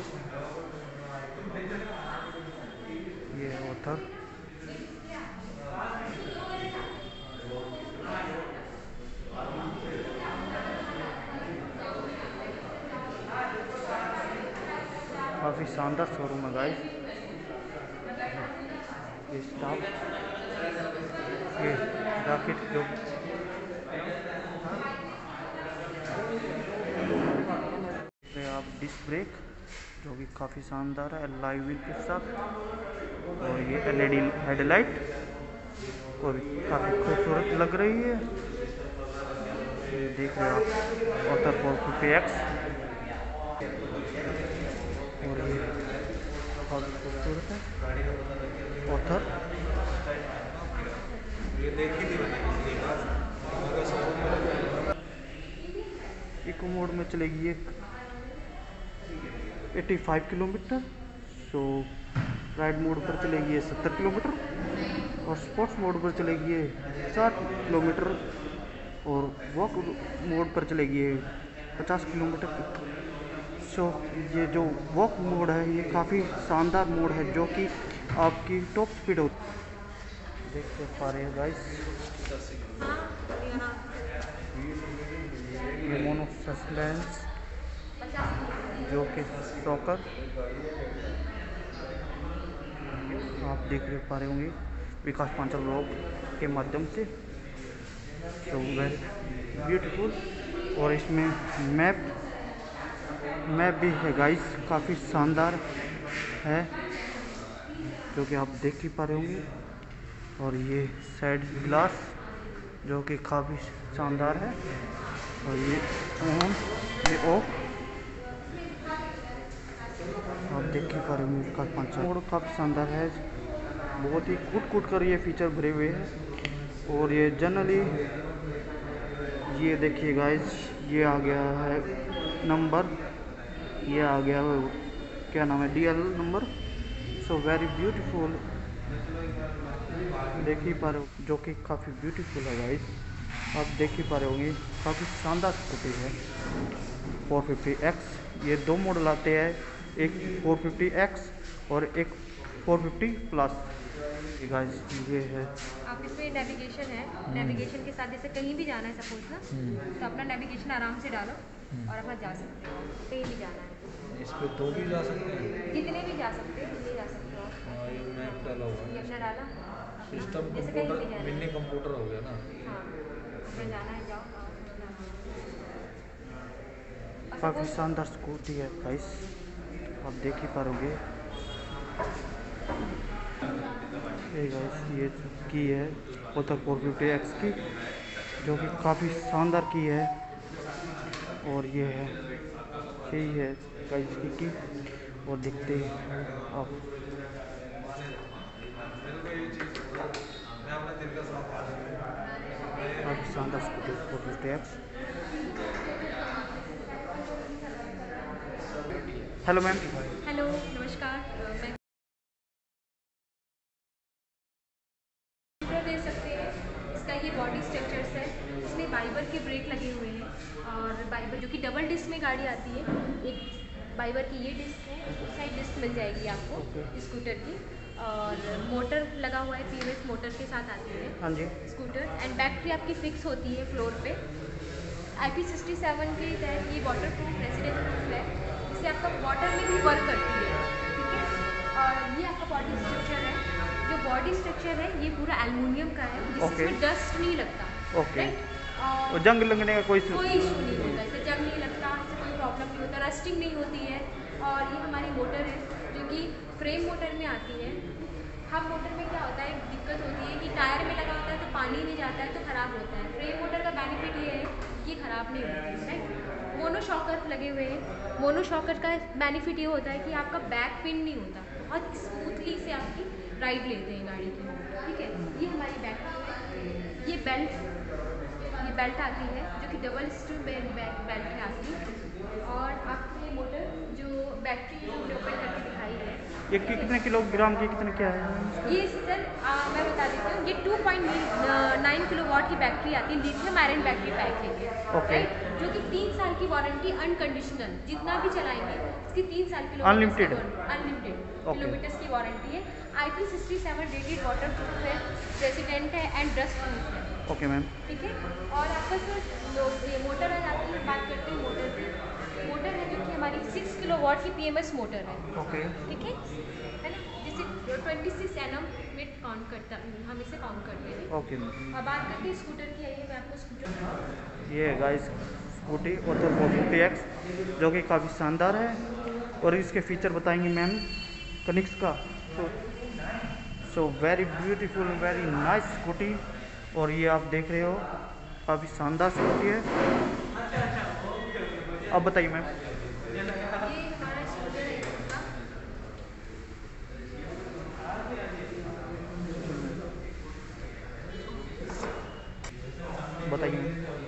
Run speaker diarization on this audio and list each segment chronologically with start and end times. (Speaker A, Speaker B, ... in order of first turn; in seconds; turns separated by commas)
Speaker A: 3.3-4.1, Speaker B: 6.2-6.9, Speaker B: 7.6-8.6, Speaker B: 10.1-13.1, Speaker B: 14.0-15.3, Speaker A: 15.4-16.8, Speaker A: 19.3-19.9, Speaker A: 21.6-22.9, Speaker B: 24.7-25.0, Speaker A: 28.2-29.4, Speaker A: 30.0-32.3, Speaker A: 33.4-35.0, Speaker A: 36.2-38.3, Speaker A: 39.9-40.7, Speaker A: 41.2-42.5, Speaker A: 45.2-45.8, Speaker A: 46.6-47.7, Speaker A: 48.9-49.3, Speaker C: 51.7-52.3, Speaker C: 53.6-54.5, Speaker A: 56.4-57.8, Speaker A: 59.7-61.9, Speaker A: 62.5-64.4, Speaker A: 65.2-68.2, Speaker A: 69.0-72.8, Speaker A: 73.6-79.3, Speaker A: 80.5-81.9, Speaker B: 82.8-84.1, Speaker A: 85.7-87.3, Speaker B: 88.0-88.9, Speaker A: 88.8-90.1, Speaker A: 93.2-97.1, Speaker A: 98.4-100.2, Speaker A: 100.7-102.1, Speaker A: 103.5-105.6, Speaker A: 106.4-106.7, Speaker A: 108.1-109.5, Speaker A: 110.4-112.2, Speaker A: 112.8-114.6, Speaker A: 115.4-117.5, Speaker A: 120.5-123.2, Speaker A: 124.0-126.1, Speaker A: 126.8-128.0, Speaker A: 129.4-131.9, Speaker A: 132.4-132.9, Speaker A: 133.8-134.8, Speaker A: 135.3-136.5, Speaker A: 137.2-138.4, Speaker A: 140.3-142.9, Speaker A: 143.5-146.2, Speaker A: 147.3-153.7, Speaker A: 154.3-155.5, Speaker B: 155.8-163.9, Speaker C: 157.3-157.7, Speaker C: 159.5-159.8, Speaker C: 164.1-165.6, Speaker B: 165.7-167.6, Speaker C: 167.6-169.3, Speaker B: 168.8-171.5, Speaker C: 170.1-172.4, Speaker B: 172.6-175.2, Speaker B: 177.3-177.8, Speaker A: 177.4-179.3, Speaker A: 180.0-181.0, Speaker A: 184.3-187.6, Speaker A: 188.4-190.1, Speaker A: 191.4-192.2, Speaker A: 193.1-194.6, Speaker A: 195.2-196.8, Speaker C: 199.1-200.1, Speaker C: 200.8-201.7, Speaker A: 203.0-204.8, Speaker B: 205.4-208.3, Speaker A: 209.4-210.2, Speaker B: 210.2-211.7, Speaker B: 215.6-234.2, Speaker A: 226.5-226.9, Speaker A: 231.2-231.5, Speaker B: 235.2-249.2, Speaker A: 246.4-246.8, Speaker A: 247.9-248.4, Speaker A: 249.1-251.0, Speaker B: 250.1-257.8, Speaker B: 258.5-276.4, Speaker B: 277.0-277.6, Speaker B: 278.6-281.8, Speaker B: 282.4-286.9, Speaker A: 286.5-288.8, Speaker B: 288.7-307.1, Speaker A: 294.9-295.3, Speaker A: 299.8-300.4, Speaker A: 301.4-301.8, Speaker A: 307.3-307.7, Speaker B: 307.9-315.3, Speaker A: 315.4-315.8, Speaker B: 315.9-316.2, Speaker B: 316.8-321.1, Speaker A: 321.1-321.6, Speaker B: 321.7-323.9, Speaker A: 324.5-328.8, Speaker A: 329.4-330.9, Speaker A: 331.4-332.5, Speaker A: 333.6-336.2, Speaker A: 336.7-337.9, Speaker A: 338.4-339.7, Speaker A: 341.9-342.5, Speaker B: 343.5-345.3, Speaker A: 349.3-349.9, Speaker A: 353.2-353.8